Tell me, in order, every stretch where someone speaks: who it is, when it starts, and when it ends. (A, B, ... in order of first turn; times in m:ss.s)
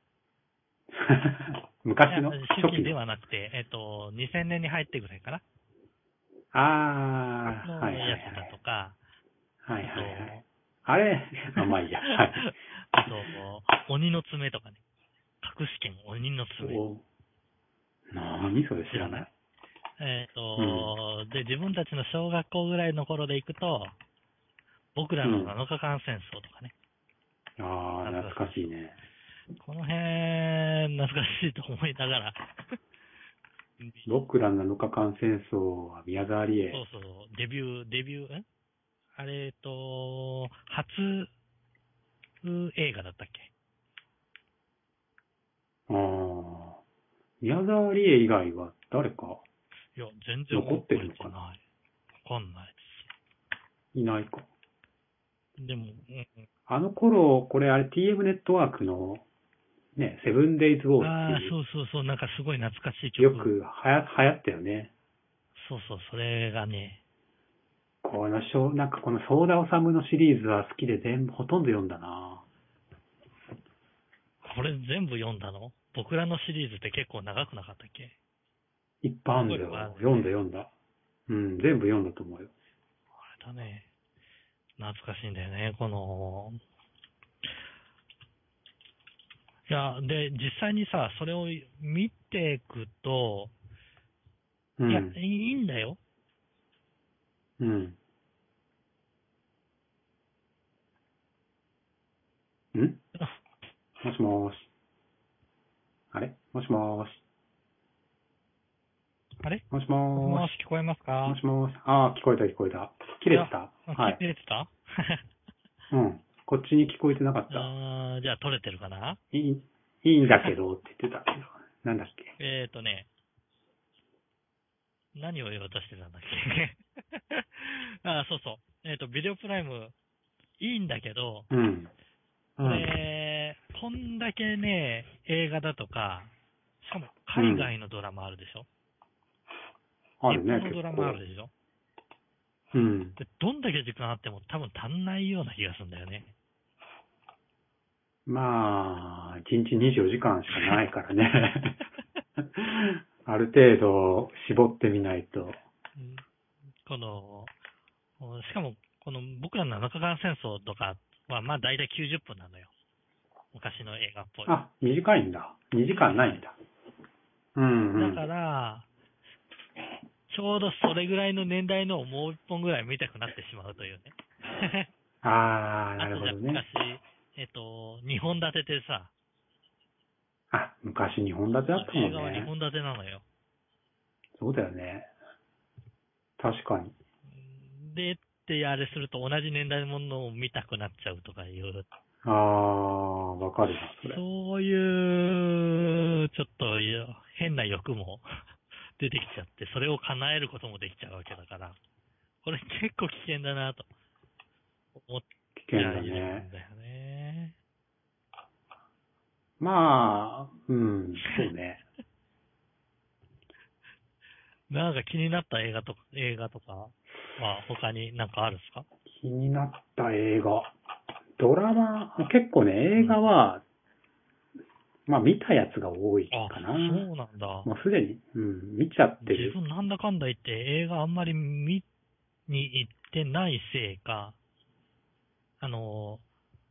0:00.9-0:02.9 A
0:02.1-0:05.4 B
0:06.5-0:08.5 A
0:07.4-0:09.0 B
0:09.6-0:10.3 A
0:09.8-0:10.4 B
0:10.8-0:12.4 A
0:11.6-0:14.8 B
0:15.4-0:16.8 B
0:16.6-0:17.0 A
0:18.1-0:19.3 A
0:18.9-0:19.3 B
0:20.0-0:24.0 B
0:20.6-0:20.9 A
0:24.9-0:26.7 B
0:25.2-0:25.5 A
0:27.6-0:29.0 A
0:28.0-0:28.7 B
0:29.6-0:32.8 B
0:33.8-0:34.2 B
0:34.0-0:36.8 A
0:36.7-0:38.4 B
0:39.2-0:41.3 B
0:42.4-0:43.5 B
0:45.9-0:46.8 A
0:47.4-0:49.4 A
0:49.9-0:51.6 B
0:50.5-0:51.3 A
0:52.2-0:53.1 B
0:53.9-0:54.4 A
0:55.6-0:56.5 B
0:56.7-0:59.2 A
1:00.0-1:01.5 A
1:01.0-1:03.5 B
1:03.2-1:04.9 A
1:05.5-1:07.0 B
1:08.0-1:12.4 A
1:14.4-1:18.1 B
1:19.0-1:20.7 A
1:19.4-1:20.3 B
1:21.3-1:22.5 A
1:23.2-1:23.9 B
1:24.8-1:26.6 B
1:29.7-1:33.5 B
1:34.8-1:35.2 A
1:34.9-1:36.0 B
1:37.6-1:38.0 A
1:42.7-1:43.0 A
1:44.0-1:44.7 A
1:46.1-1:47.2 A
1:49.7-1:50.5 A
1:50.2-1:51.4 B
1:51.2-1:54.2 A
1:53.3-1:55.2 B
1:55.9-1:57.7 A
1:57.5-1:59.2 B
1:59.3-2:02.3 A
2:02.4-2:03.1 B
2:05.1-2:09.9 B
2:10.6-2:11.5 B
2:11.5-2:11.9 A
2:12.6-2:12.9 A
2:12.6-2:18.7 B
2:17.3-2:17.7 A
2:20.2-2:21.2 A
2:20.3-2:21.5 B
2:22.7-2:23.2 A
2:23.2-2:26.3 B
2:28.2-2:31.8 A
2:32.5-2:35.6 A
2:36.0-2:36.2 B
2:36.8-2:37.5 B
2:38.2-2:42.7 B
2:43.5-2:44.5 B
2:44.4-2:46.5 A
2:47.5-2:48.2 A
2:48.0-2:48.9 B
2:50.3-2:54.9 B
2:55.2-2:56.6 A
2:56.0-2:59.1 B
3:00.5-3:02.5 A
3:01.7-3:03.2 B
3:04.4-3:05.1 A
3:06.4-3:06.9 A
3:07.3-3:11.9 B
3:12.2-3:14.2 A
3:14.0-3:18.4 B
3:19.0-3:21.8 B
3:22.4-3:23.9 B
3:24.9-3:27.5 B
3:25.6-3:26.5 A
3:29.6-3:31.8 A
3:34.7-3:38.9 B
3:39.1-3:40.7 A
3:41.4-3:43.6 A
3:45.1-3:47.1 A
3:46.3-3:47.7 B
3:47.6-3:49.6 A
3:49.2-3:51.8 B
3:52.5-3:54.4 B
3:55.6-3:56.2 B